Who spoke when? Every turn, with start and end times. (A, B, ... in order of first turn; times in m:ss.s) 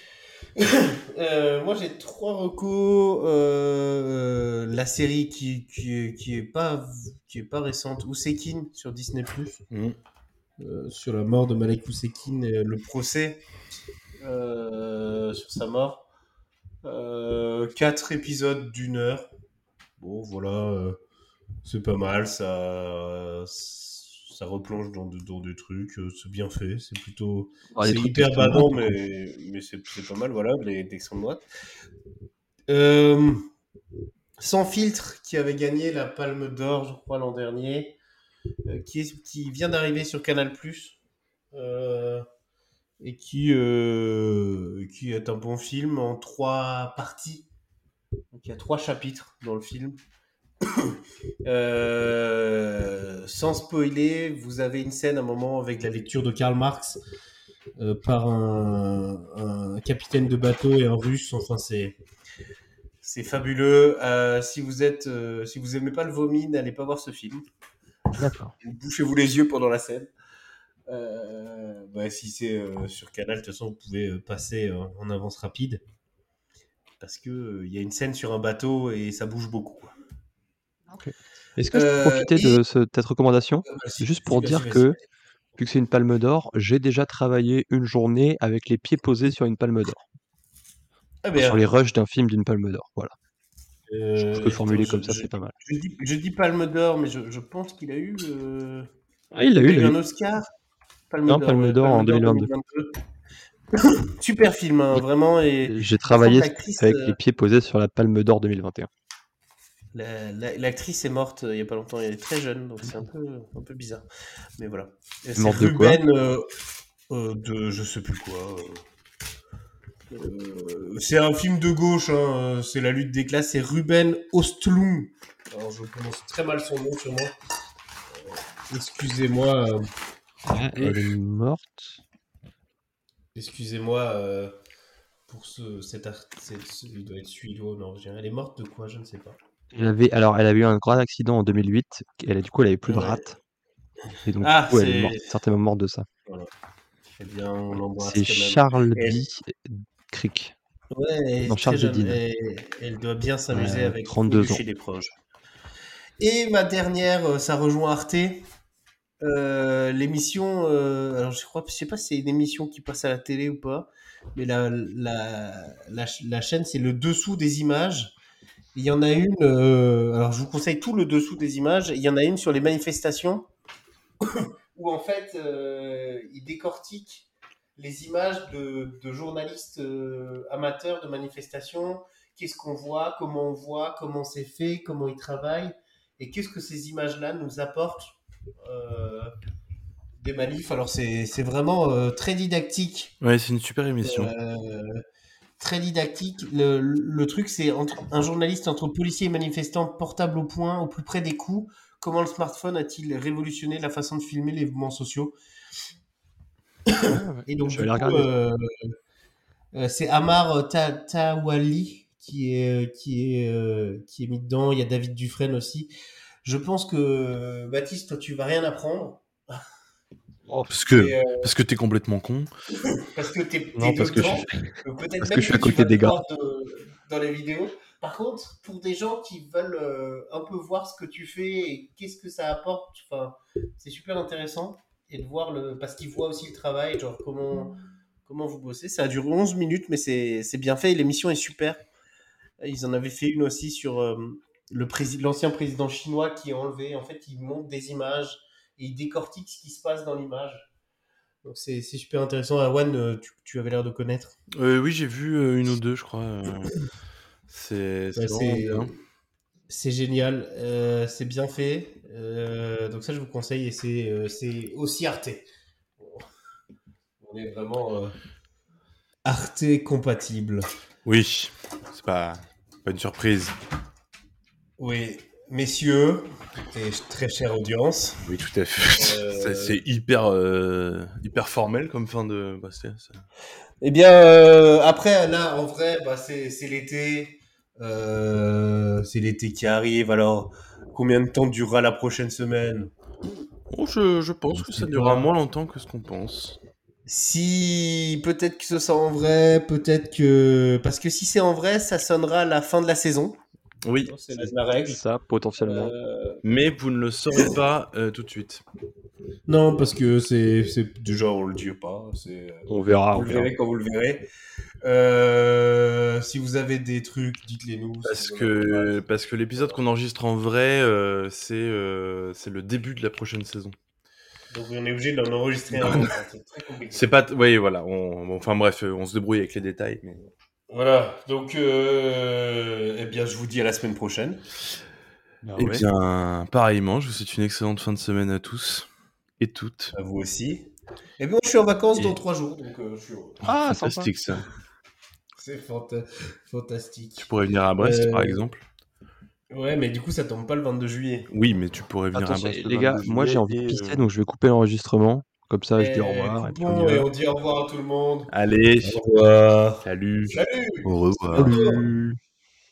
0:00.6-0:09.6 A
0:09.7-0:10.0 B
0:10.6-0:13.4 A
0:14.2-0:16.1 A
0:16.8-0:19.3 A
0:20.0-0:21.0 A
0:21.6-0:31.4 A
0:27.7-0:29.0 C
0:32.7-0:33.5 A
0:34.4-0:38.0 A
0:38.7-0:41.0 A
0:41.5-0:42.3 A
0:43.0-0:47.5 A
0:48.3-0:50.0 A
0:50.8-0:57.0 A
0:57.8-1:02.0 A
1:03.0-1:07.4 A
1:08.2-1:08.5 C
1:08.6-1:10.1 A
1:10.9-1:15.8 A
1:17.0-1:19.9 A
1:20.9-1:25.0 C
1:21.7-1:22.6 A
1:23.7-1:25.0 A
1:25.6-1:30.0 C
1:31.2-1:31.6 A
1:31.4-1:33.1 C
1:33.9-1:38.9 A
1:34.2-1:35.5 C
1:39.3-1:40.0 C
1:39.6-1:40.5 A
1:41.1-1:43.0 A
1:41.3-1:42.5 C
1:43.8-1:47.2 A
1:45.7-1:48.9 C
1:49.9-1:54.0 A
1:54.6-1:56.5 A
1:55.4-1:56.0 C
1:57.1-1:58.8 A
2:00.1-2:07.4 A
2:08.1-2:09.9 A
2:10.5-2:12.0 C
2:10.8-2:11.2 A
2:13.4-2:14.5 A
2:15.3-2:19.4 A
2:19.7-2:23.4 C
2:22.8-2:23.2 A
2:24.2-2:26.1 C
2:24.4-2:25.3 A
2:27.2-2:29.2 A
2:28.0-2:30.6 C
2:30.9-2:35.2 A
2:31.5-2:32.2 C
2:33.5-2:34.6 C
2:36.2-2:38.4 A
2:39.2-2:48.2 A
2:48.8-2:53.5 A
2:54.2-3:09.3 A
3:10.2-3:13.2 A
3:13.2-3:14.3 B
3:14.0-3:15.0 A
3:15.6-3:25.4 A
3:26.9-3:28.9 A
3:27.0-3:28.3 C
3:29.7-3:35.9 A
3:36.4-3:39.6 A
3:40.5-3:40.7 C
3:40.7-3:42.5 B
3:40.9-3:41.5 A
3:43.0-3:57.7 A
3:43.8-3:46.2 C
3:58.2-4:01.8 A
4:02.6-4:10.7 A
4:11.4-4:14.4 A
4:14.5-4:16.7 B
4:17.5-4:18.9 B
4:18.2-4:18.9 A
4:19.7-4:25.5 A
4:27.2-4:28.2 A
4:29.2-4:30.7 A
4:31.0-4:33.6 B
4:34.8-4:38.3 A
4:38.2-4:43.2 B
4:39.0-4:39.8 A
4:43.8-4:52.9 A
4:53.7-4:56.6 B
4:54.5-4:55.3 A
4:57.1-5:03.4 A
5:03.8-5:04.1 B
5:04.0-5:05.0 A
5:04.4-5:05.9 C
5:05.6-5:06.4 A
5:06.4-5:08.6 B
5:09.5-5:14.3 A
5:12.7-5:13.5 C
5:14.8-5:19.8 A
5:18.0-5:23.8 B
5:24.5-5:27.1 A
5:25.7-5:26.1 B
5:26.9-5:30.3 B
5:30.7-5:34.4 A
5:35.4-5:35.9 C
5:35.6-5:38.9 B
5:39.4-5:39.9 B
5:39.9-5:43.4 A
5:43.4-5:44.1 C
5:43.4-5:44.4 B
5:45.4-5:48.4 A
5:47.2-5:48.7 B
5:49.5-5:51.3 A
5:51.3-5:54.0 B
5:52.1-5:57.1 C
5:55.8-5:58.3 A
5:58.3-5:59.0 B
5:58.8-6:01.9 A
5:59.8-6:01.5 B
6:01.4-6:02.2 C